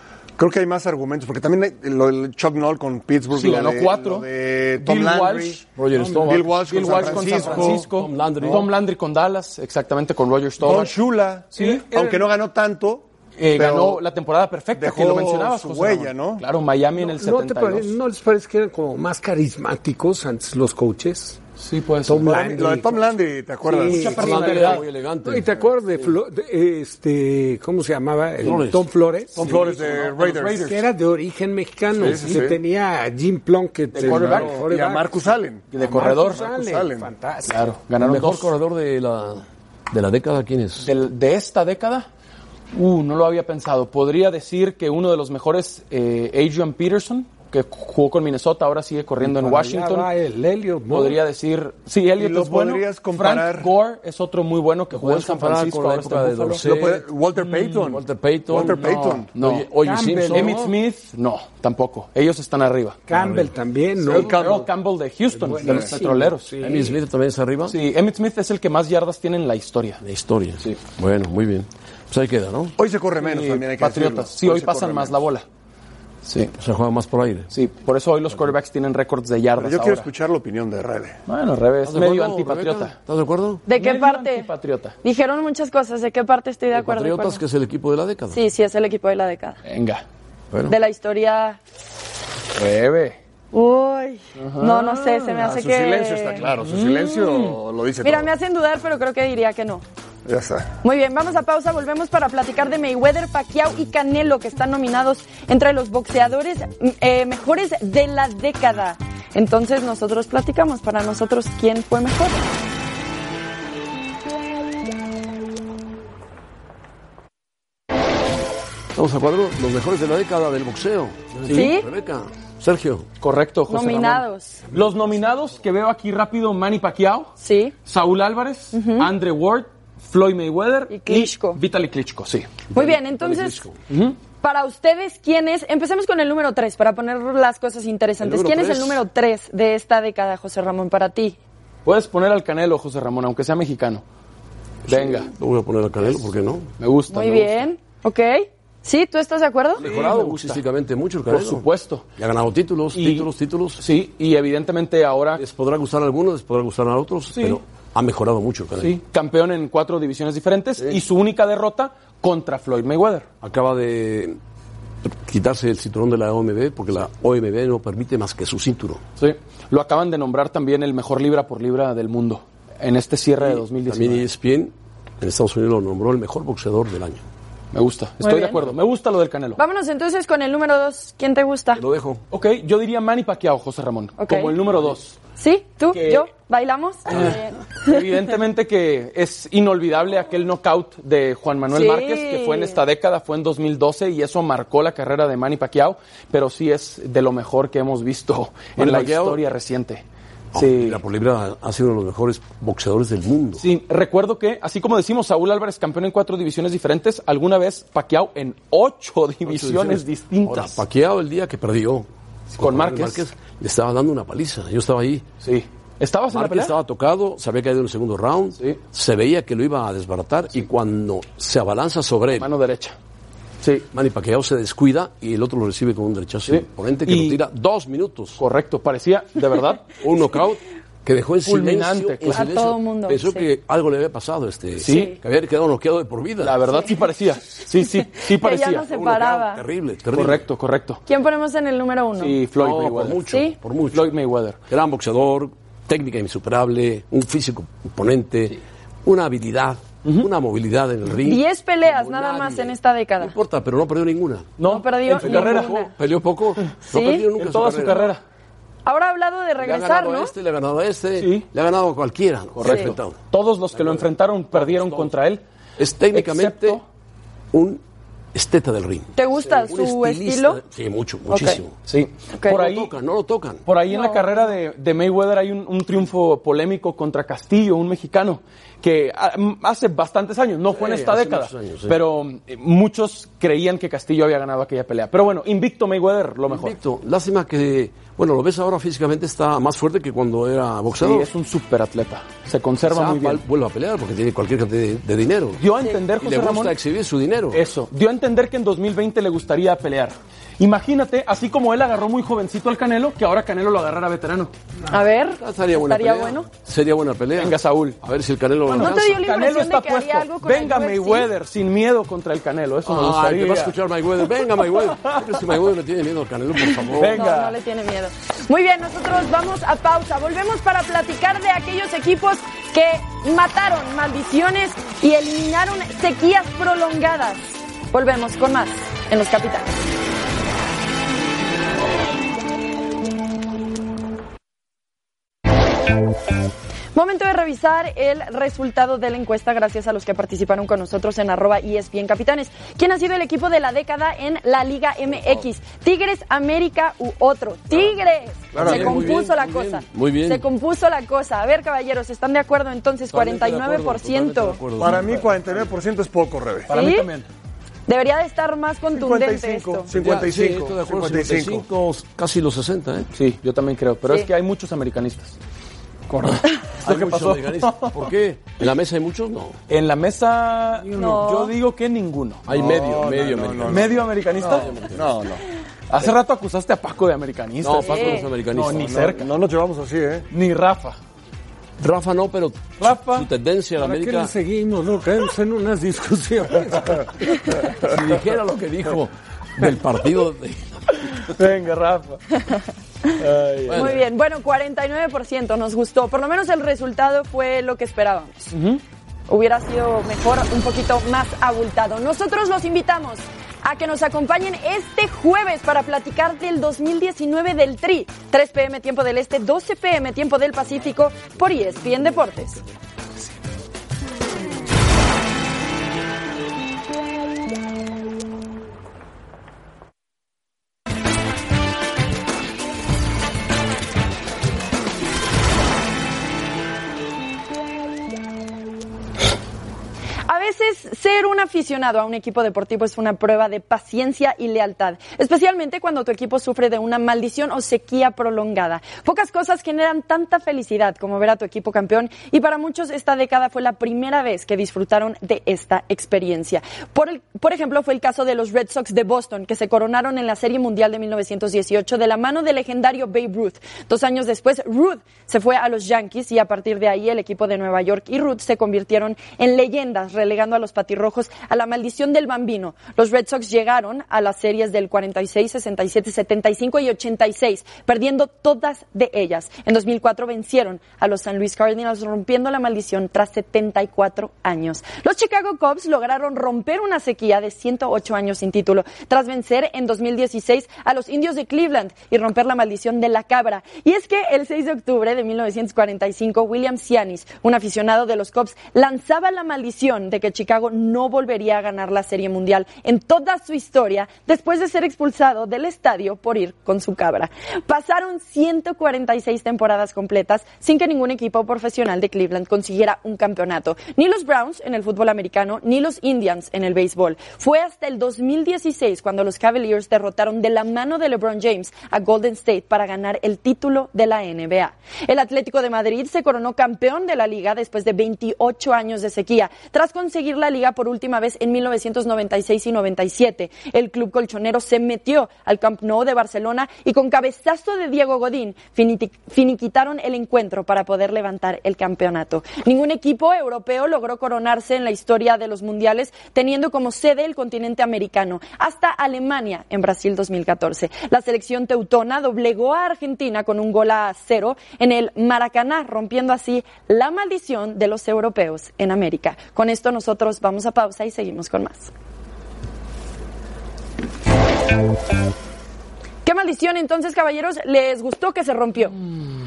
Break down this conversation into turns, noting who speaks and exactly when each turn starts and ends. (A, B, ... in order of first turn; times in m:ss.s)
0:00.4-0:05.6 A
0:03.3-0:04.3 B
0:04.8-0:05.6 B
0:05.8-0:08.7 C
0:05.9-0:07.6 D
0:06.2-0:07.8 A
0:06.6-0:11.0 B
0:10.6-0:14.0 A
0:11.5-0:11.8 B
0:11.6-0:12.3 D
0:13.4-0:17.9 B
0:14.7-0:16.4 A
0:17.0-0:21.4 D
0:21.6-0:22.4 B
0:22.0-0:23.1 D
0:22.2-0:24.8 A
0:23.7-0:29.6 D
0:23.7-0:24.8 B
0:24.1-0:25.5 C
0:28.4-0:28.9 C
0:29.3-0:30.7 A
0:29.4-0:30.9 B
0:30.6-0:37.6 D
0:31.9-0:32.6 A
0:33.9-0:34.5 B
0:34.0-0:37.1 A
0:35.7-0:36.4 B
0:37.4-0:38.5 B
0:38.0-0:40.9 C
0:40.8-0:42.1 B
0:42.7-0:50.1 B
0:49.2-0:51.2 D
0:50.9-0:56.6 B
0:52.2-0:53.7 A
0:54.9-0:57.0 C
0:56.6-0:59.3 A
0:57.4-0:57.8 B
0:57.8-1:00.7 C
0:58.8-0:59.7 B
0:59.8-1:00.7 D
1:00.3-1:03.0 B
1:03.1-1:04.4 D
1:03.1-1:03.5 C
1:04.0-1:04.7 A
1:04.1-1:06.5 B
1:05.3-1:07.0 D
1:05.6-1:05.9 A
1:06.6-1:07.8 C
1:07.7-1:10.0 B
1:10.0-1:12.8 C
1:12.8-1:15.2 A
1:13.2-1:15.4 B
1:16.2-1:16.5 B
1:16.6-1:17.5 C
1:17.5-1:20.1 B
1:19.6-1:21.2 A
1:21.3-1:22.9 B
1:21.8-1:23.6 C
1:23.7-1:24.5 E
1:23.7-1:25.0 B
1:25.0-1:27.4 E
1:26.7-1:28.4 C
1:28.3-1:29.6 E
1:29.6-1:30.0 B
1:30.7-1:31.6 E
1:32.5-1:33.2 B
1:33.5-1:36.5 E
1:34.4-1:35.3 B
1:35.3-1:38.3 A
1:36.6-1:37.6 B
1:38.0-1:39.8 E
1:40.2-1:40.7 A
1:40.8-1:52.4 E
1:58.9-2:03.1 C
2:01.5-2:01.9 E
2:03.2-2:07.3 B
2:03.7-2:04.6 E
2:07.4-2:07.7 E
2:07.8-2:12.5 B
2:08.7-2:09.1 E
2:10.9-2:11.6 E
2:12.7-2:13.8 C
2:12.7-2:13.6 E
2:13.9-2:14.2 B
2:14.4-2:21.4 E
2:18.2-2:19.0 C
2:21.8-2:24.0 B
2:24.8-2:25.3 B
2:24.8-2:26.7 C
2:26.8-2:27.7 B
2:27.1-2:29.8 E
2:29.8-2:31.6 C
2:29.8-2:30.6 B
2:31.3-2:32.1 B
2:32.2-2:33.8 C
2:32.9-2:35.4 B
2:35.4-2:39.0 C
2:37.3-2:37.6 B
2:38.8-2:43.2 B
2:43.4-2:44.4 C
2:45.0-2:49.0 C
2:49.2-2:54.2 B
2:53.4-2:57.2 C
2:57.7-2:59.6 B
2:58.2-2:58.6 E
2:59.6-3:01.8 E
3:01.8-3:02.2 C
3:02.3-3:05.2 B
3:04.2-3:04.6 E
3:05.4-3:08.0 E
3:05.9-3:06.2 B
3:07.1-3:21.0 B
3:11.7-3:12.8 E
3:18.8-3:19.4 C
3:20.5-3:23.6 C
3:23.6-3:30.8 B
3:29.4-3:35.3 C
3:32.5-3:33.2 B
3:35.4-3:36.7 B
3:36.3-3:42.5 C
3:42.4-3:43.0 B
3:43.9-3:48.4 C
3:46.5-3:47.4 B
3:48.4-3:50.0 B
3:50.0-3:56.6 C
3:51.4-3:52.5 B
3:52.3-3:53.4 E
3:54.8-3:55.2 B
3:54.9-3:55.1 E
3:56.4-3:58.9 B
3:58.2-3:59.6 E
3:58.9-4:00.4 C
4:00.1-4:01.0 B
4:01.0-4:02.4 E
4:02.2-4:03.2 B
4:02.6-4:04.1 C
4:03.3-4:03.6 E
4:03.9-4:04.6 B
4:04.7-4:14.5 C
4:11.2-4:13.3 E
4:14.6-4:15.9 B
4:14.6-4:15.9 E
4:15.1-4:18.1 C
4:16.9-4:17.3 E
4:17.4-4:18.2 B
4:18.8-4:20.3 E
4:19.6-4:23.2 C
4:21.2-4:21.5 B
4:22.6-4:25.4 B
4:22.6-4:22.9 E
4:23.7-4:25.1 C
4:25.8-4:26.8 C
4:26.1-4:26.8 B
4:27.5-4:27.8 C
4:28.3-4:31.7 C
4:29.2-4:30.6 E
4:31.3-4:31.6 E
4:31.9-4:32.9 B
4:32.5-4:33.6 C
4:33.6-4:46.8 B
4:33.9-4:34.5 E
4:40.7-4:42.0 C
4:46.5-4:51.3 C
4:51.0-4:53.4 B
4:52.8-4:55.6 C
4:55.6-4:56.8 B
4:56.2-4:57.6 C
4:57.5-5:04.5 B
5:04.9-5:06.5 E
5:05.3-5:09.2 C
5:07.3-5:08.0 B
5:08.6-5:13.7 B
5:08.8-5:11.3 E
5:12.8-5:17.2 C
5:14.4-5:15.6 B
5:16.8-5:17.6 B
5:17.0-5:29.7 E
5:36.9-5:54.6 E
5:48.5-5:49.1 A
5:48.5-5:50.4 C
5:53.1-5:55.7 C
5:54.8-5:56.7 A
5:56.7-5:57.3 B
5:56.7-5:57.1 E
5:57.9-5:59.9 E
5:58.9-6:01.6 A
5:59.9-6:03.1 C
6:03.1-6:05.4 B
6:06.1-6:09.6 C
6:06.7-6:08.1 B
6:09.7-6:12.4 B
6:10.9-6:11.5 E
6:12.4-6:15.3 C
6:12.5-6:15.4 A
6:13.6-6:14.7 B
6:15.9-6:19.3 B
6:17.6-6:19.0 C
6:17.8-6:18.3 E
6:18.7-6:20.2 A
6:20.3-6:21.0 B
6:21.8-6:24.3 C
6:22.8-6:23.3 B
6:23.8-6:27.6 D
6:27.6-6:31.2 C
6:30.9-6:32.2 B
6:32.4-6:33.2 E
6:33.2-6:34.0 B
6:33.6-6:34.0 C
6:33.7-6:38.5 E
6:38.5-6:38.8 B
6:39.3-6:52.6 E
7:10.3-9:11.9 E
9:16.2-9:19.0 E